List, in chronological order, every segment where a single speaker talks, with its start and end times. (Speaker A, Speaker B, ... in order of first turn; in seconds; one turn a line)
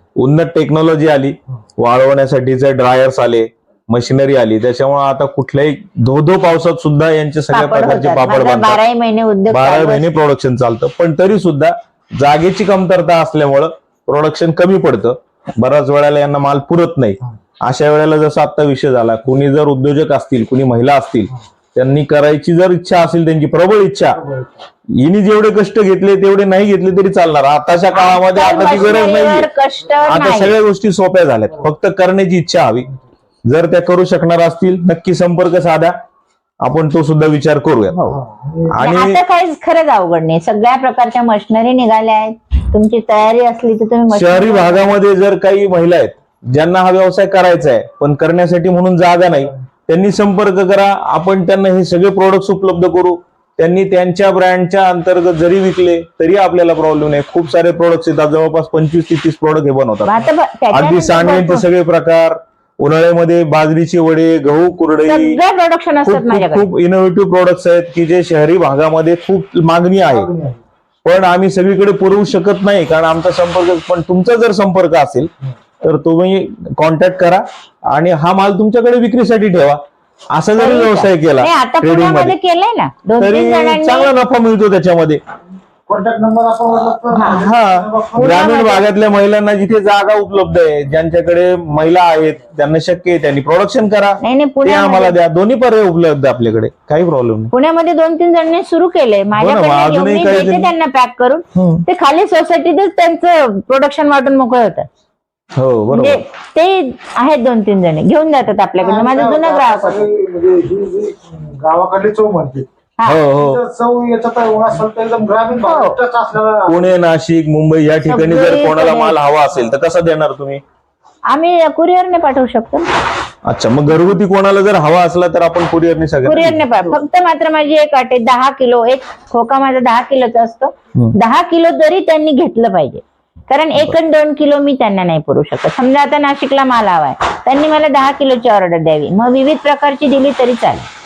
Speaker A: 0.2-8.8
Speaker B: 7.5-10.1
Speaker A: 9.5-24.2
Speaker C: 24.1-24.6
Speaker A: 24.9-29.5
Speaker B: 27.9-30.5
Speaker A: 30.0-32.9
Speaker A: 33.5-36.0
Speaker A: 36.6-38.0
Speaker B: 37.9-38.2
Speaker C: 38.1-38.8
Speaker A: 38.7-39.2
Speaker B: 38.8-44.9
Speaker A: 44.1-65.4
Speaker B: 60.0-61.6
Speaker B: 65.1-66.7
Speaker A: 66.0-70.3
Speaker C: 70.1-70.6
Speaker A: 71.0-75.3
Speaker A: 75.8-79.8
Speaker A: 80.3-82.3
Speaker B: 80.6-84.1
Speaker A: 83.2-85.2
Speaker C: 85.9-88.6
Speaker B: 87.1-87.5
Speaker A: 87.2-97.5
Speaker B: 88.2-88.8
Speaker B: 94.2-95.1
Speaker B: 97.5-104.8
Speaker A: 99.4-100.7
Speaker A: 101.5-101.8
Speaker A: 105.6-106.2
Speaker B: 105.9-110.1
Speaker C: 108.8-112.7
Speaker A: 113.0-113.6
Speaker C: 113.4-116.8
Speaker B: 115.6-116.0
Speaker A: 116.7-120.6
Speaker B: 118.0-119.2
Speaker B: 121.3-122.9
Speaker A: 123.4-126.6
Speaker B: 126.2-140.9